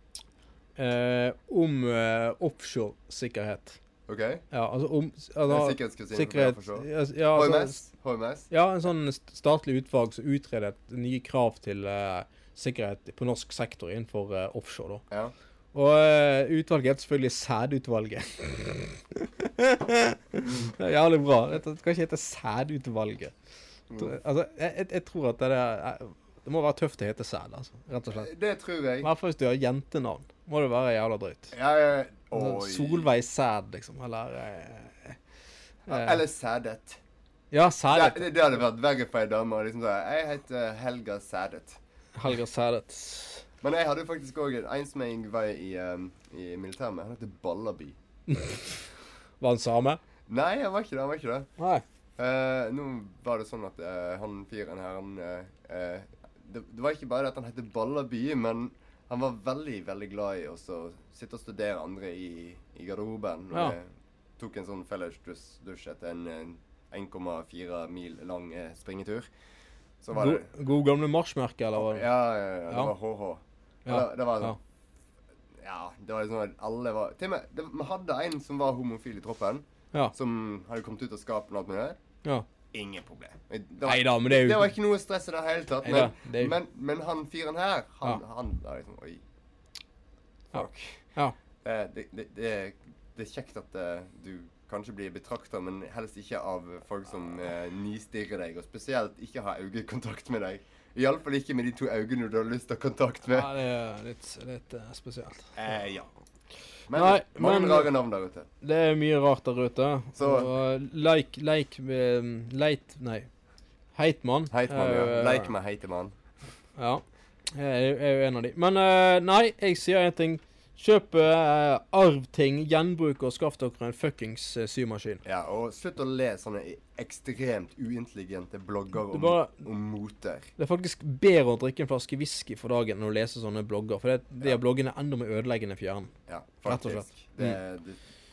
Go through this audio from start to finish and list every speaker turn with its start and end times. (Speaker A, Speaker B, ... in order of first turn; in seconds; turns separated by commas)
Speaker A: 0.8-3.8, Speaker B: 4.1-4.4, Speaker A: 4.5-7.8, Speaker B: 5.5-8.5, Speaker A: 8.5-15.0, Speaker A: 15.7-23.3, Speaker B: 23.9-24.2, Speaker A: 24.0-28.3, Speaker B: 28.1-29.1, Speaker A: 29.0-31.5, Speaker B: 31.5-33.0, Speaker A: 32.4-35.2, Speaker A: 35.9-36.2, Speaker B: 35.9-37.0, Speaker A: 37.5-38.3, Speaker B: 37.9-41.8, Speaker A: 42.2-43.4, Speaker B: 43.6-48.0, Speaker A: 48.3-48.6, Speaker A: 49.4-50.0, Speaker B: 50.3-51.5, Speaker A: 51.6-51.8, Speaker B: 52.2-63.8, Speaker B: 64.4-69.3, Speaker B: 70.0-70.5, Speaker A: 70.1-72.1, Speaker B: 71.7-74.6, Speaker A: 73.8-74.6, Speaker B: 75.6-82.0, Speaker B: 82.7-89.2, Speaker A: 83.8-84.7, Speaker A: 85.8-86.5, Speaker B: 90.5-91.0, Speaker A: 90.5-91.3, Speaker B: 91.6-103.5, Speaker A: 103.3-105.5, Speaker B: 105.5-106.1, Speaker B: 106.9-108.5, Speaker A: 106.9-107.9, Speaker A: 108.6-113.3, Speaker B: 110.2-110.5, Speaker A: 113.9-115.5, Speaker B: 114.5-116.1, Speaker A: 116.8-117.0, Speaker A: 117.5-125.2, Speaker B: 125.2-130.5, Speaker A: 129.1-129.6, Speaker A: 130.6-136.1, Speaker B: 136.3-138.0, Speaker A: 136.7-137.5